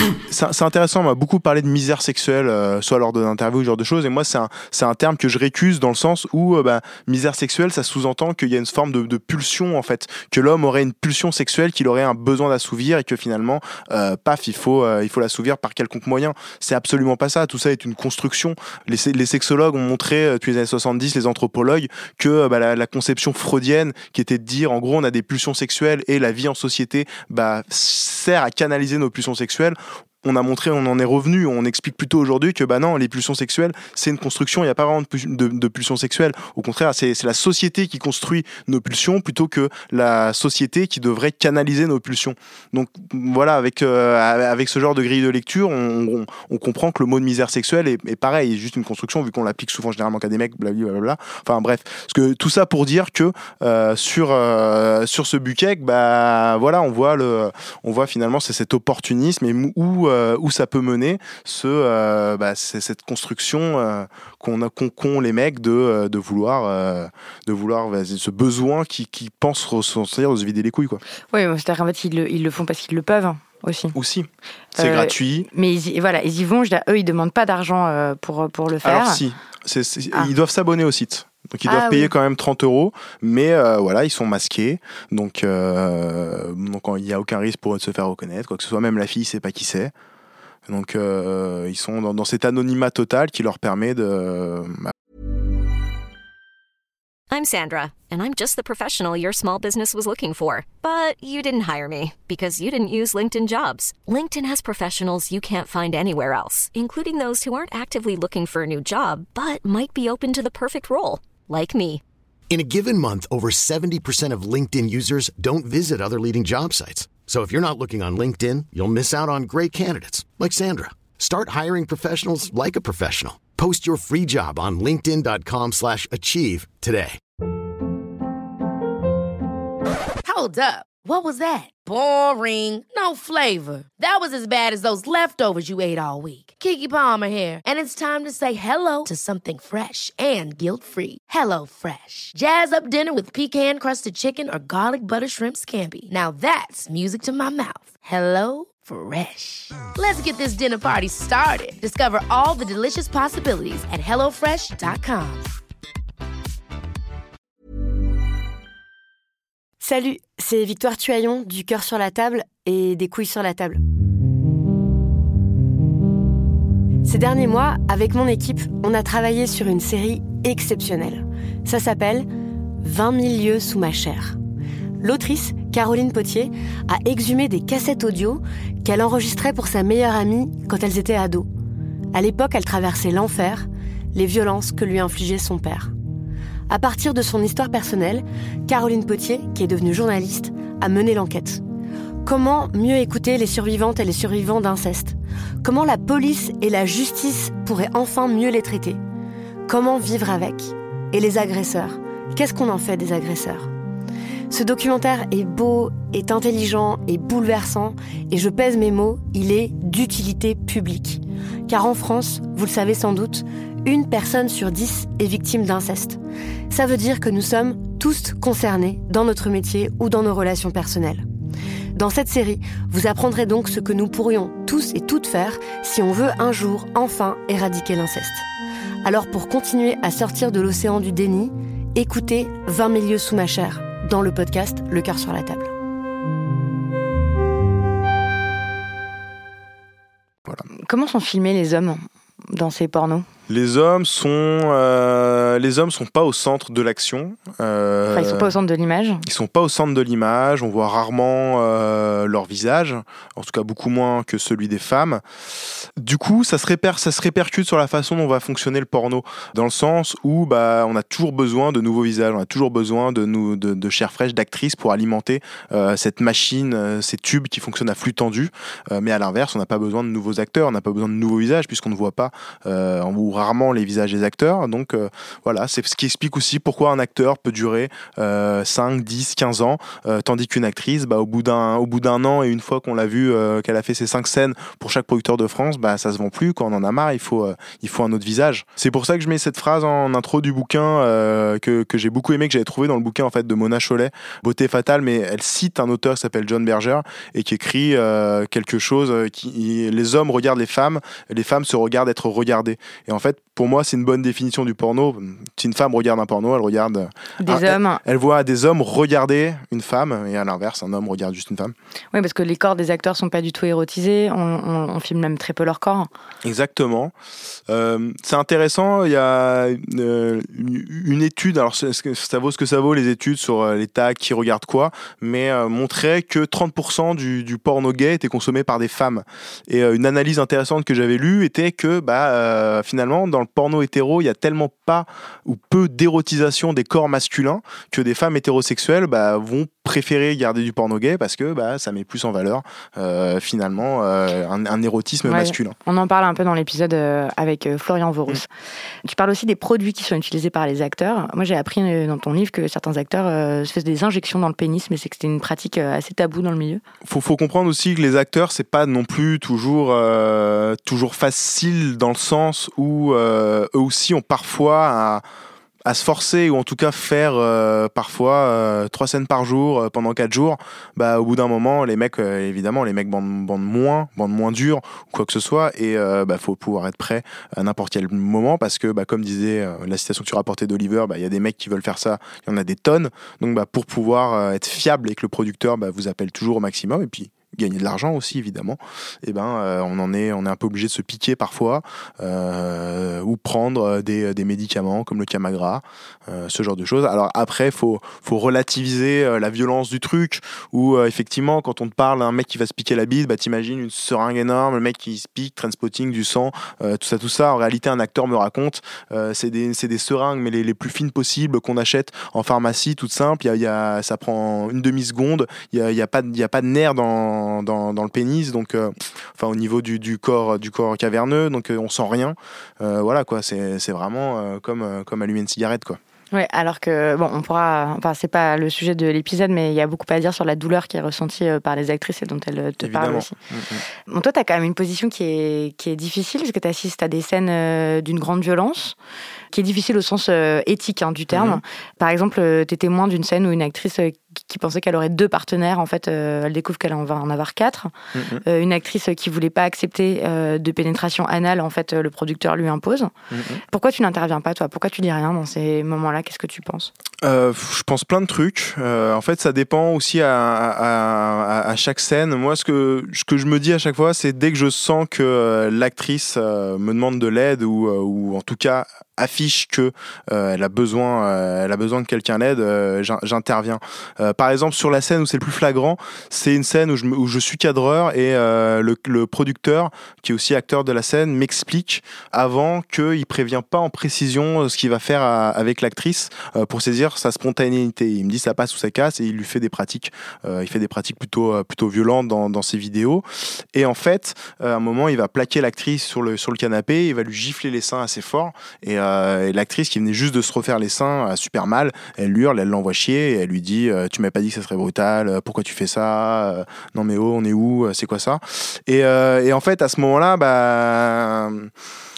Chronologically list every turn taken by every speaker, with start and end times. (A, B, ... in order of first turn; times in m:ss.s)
0:00.3-1:11.0 A
1:11.3-1:14.0 B
1:13.9-1:15.5 A
1:14.7-1:19.2 B
1:18.8-1:29.9 A
1:21.6-1:22.1 B
1:30.7-1:34.9 A
1:37.3-1:52.0 C
1:52.5-2:07.2 D
2:10.2-2:35.4 E
2:39.8-2:43.8 F
2:47.0-2:52.3 F
2:52.8-2:54.4 F
2:55.0-3:01.5 F
3:02.1-3:05.9 F
3:06.7-3:11.6 F
3:12.2-3:19.0 F
3:19.7-3:23.7 F
3:24.5-3:41.2 F
3:41.9-3:48.4 F
3:49.0-3:55.7 F
4:00.8-4:03.2 B
4:03.5-4:08.5 A
4:08.1-4:09.2 B
4:09.2-4:15.2 A
4:16.0-5:11.7 A
5:07.4-5:08.0 B
5:12.1-5:16.1 B
5:16.4-5:17.1 A
5:17.7-5:45.8 A
5:45.2-5:48.5 B
5:49.0-5:56.8 B
5:57.0-6:05.2 A
6:05.8-7:06.0 A
7:06.3-7:13.3 B
7:12.8-7:13.8 A
7:14.1-7:19.0 B
7:19.5-7:27.9 B
7:21.3-7:21.6 A
7:28.1-7:28.4 A
7:28.4-7:33.1 B
7:33.3-7:33.6 A
7:33.7-7:36.9 B
7:37.2-8:31.7 A